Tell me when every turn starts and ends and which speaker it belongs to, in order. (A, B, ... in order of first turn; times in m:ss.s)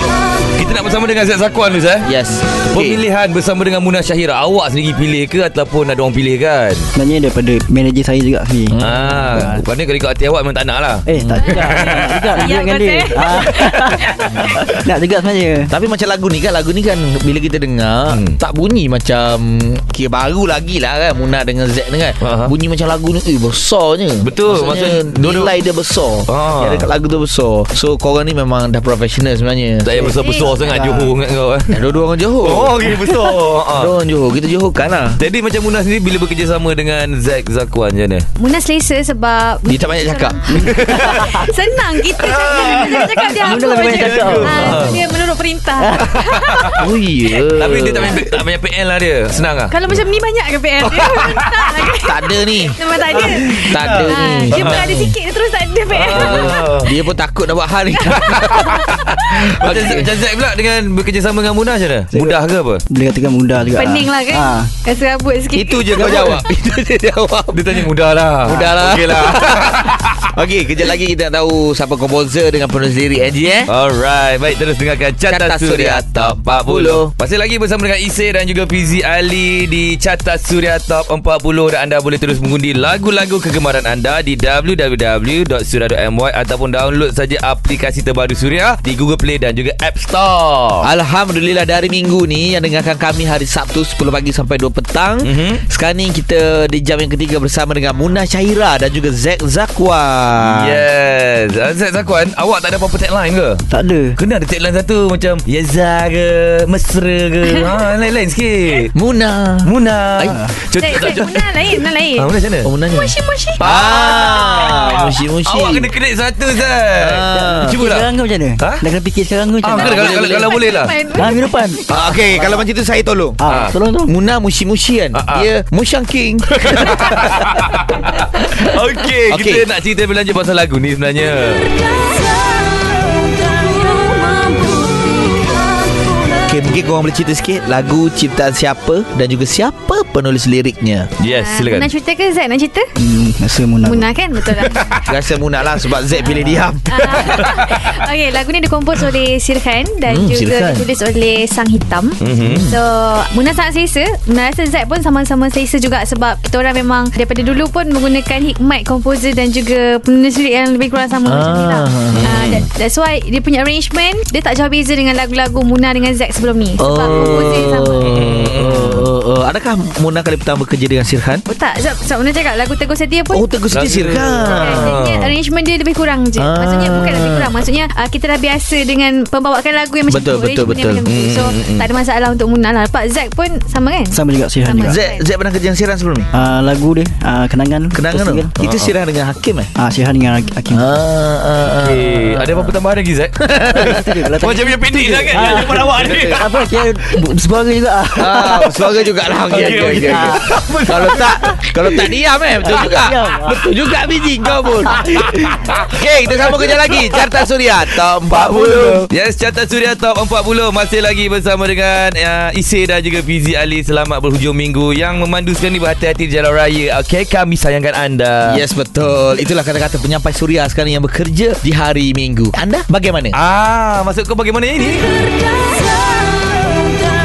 0:00.5-0:06.9 A
0:02.0-0:03.0 B
0:06.9-0:09.6 C
0:08.7-0:09.5 B
0:08.8-0:12.4 A
0:11.0-0:15.7 C
0:11.2-0:11.5 B
0:11.4-0:14.5 D
0:13.3-0:14.6 A
0:14.2-0:14.6 B
0:15.7-0:30.2 B
0:18.1-0:18.4 A
0:22.2-0:22.5 A
0:24.2-0:25.5 A
0:26.3-0:26.9 A
0:29.8-0:31.8 A
0:30.0-0:31.1 C
0:30.2-0:30.6 D
0:31.7-0:32.8 B
0:32.4-0:33.9 A
0:33.8-0:35.2 B
0:35.2-0:38.2 A
0:38.4-0:46.8 D
0:39.6-0:40.8 B
0:40.5-0:41.5 C
0:40.6-0:41.5 A
0:42.1-0:45.0 A
0:43.4-0:45.0 C
0:45.8-0:46.2 C
0:46.0-0:46.8 A
0:46.8-0:48.3 B
0:47.5-0:49.8 A
0:47.8-0:48.2 D
0:49.7-0:56.9 D
0:50.8-0:51.8 A
0:52.0-0:54.9 B
0:53.1-0:55.1 A
0:55.9-0:56.9 A
0:56.1-1:00.1 B
0:57.9-0:59.4 D
0:58.1-1:02.8 A
1:02.1-1:02.4 C
1:02.9-1:04.7 C
1:03.7-1:06.4 D
1:05.5-1:07.9 B
1:06.0-1:06.3 A
1:07.5-1:10.3 A
1:08.4-1:13.7 B
1:13.7-1:30.8 A
1:15.3-1:17.1 B
1:30.8-1:40.8 B
1:35.2-1:35.6 A
1:40.4-1:43.6 A
1:43.7-1:44.2 C
1:44.2-1:48.9 A
1:48.9-1:50.4 B
1:49.6-1:52.7 A
1:50.3-1:50.5 C
1:50.8-1:52.3 D
1:52.6-1:55.9 B
1:52.9-1:54.8 D
1:53.6-1:58.1 A
1:57.0-1:57.8 B
1:57.3-2:00.5 C
1:59.6-2:00.9 A
1:59.8-2:00.5 B
2:00.1-2:01.8 D
2:01.1-2:02.6 C
2:01.9-2:03.4 B
2:03.4-2:04.1 C
2:03.4-2:03.8 A
2:04.1-2:07.4 B
2:05.1-2:05.5 A
2:06.5-2:11.7 A
2:09.3-2:09.6 B
2:16.5-2:21.1 B
2:21.2-2:21.9 A
2:21.3-2:22.9 D
2:23.0-2:24.1 C
2:23.8-2:25.0 D
2:24.5-2:25.1 A
2:25.0-2:27.5 B
2:26.3-2:26.6 C
2:26.9-2:48.1 D
2:27.0-2:28.0 A
2:30.1-2:30.8 B
2:32.2-2:32.6 A
2:32.4-2:32.8 B
2:41.2-2:42.3 B
2:42.1-2:42.7 A
2:46.8-2:51.4 B
2:46.9-2:49.1 A
2:51.5-2:53.4 D
2:53.3-2:55.0 B
2:53.7-2:55.4 A
2:54.4-3:05.2 D
2:56.4-2:57.5 B
3:00.1-3:01.0 B
3:00.6-3:01.9 A
3:04.1-3:05.0 C
3:04.8-3:06.3 B
3:06.3-3:08.5 C
3:07.9-3:09.7 B
3:08.6-3:08.9 A
3:09.8-3:10.8 C
3:10.7-3:12.7 B
3:11.7-3:16.5 A
3:13.4-3:14.0 B
3:13.6-3:18.7 C
3:15.4-3:16.4 B
3:18.2-3:29.1 B
3:18.4-3:18.9 A
3:19.5-3:21.8 A
3:19.6-3:20.5 C
3:22.6-3:23.7 C
3:24.6-3:27.5 A
3:28.3-3:38.6 A
3:38.4-3:43.4 B
3:43.3-3:45.1 A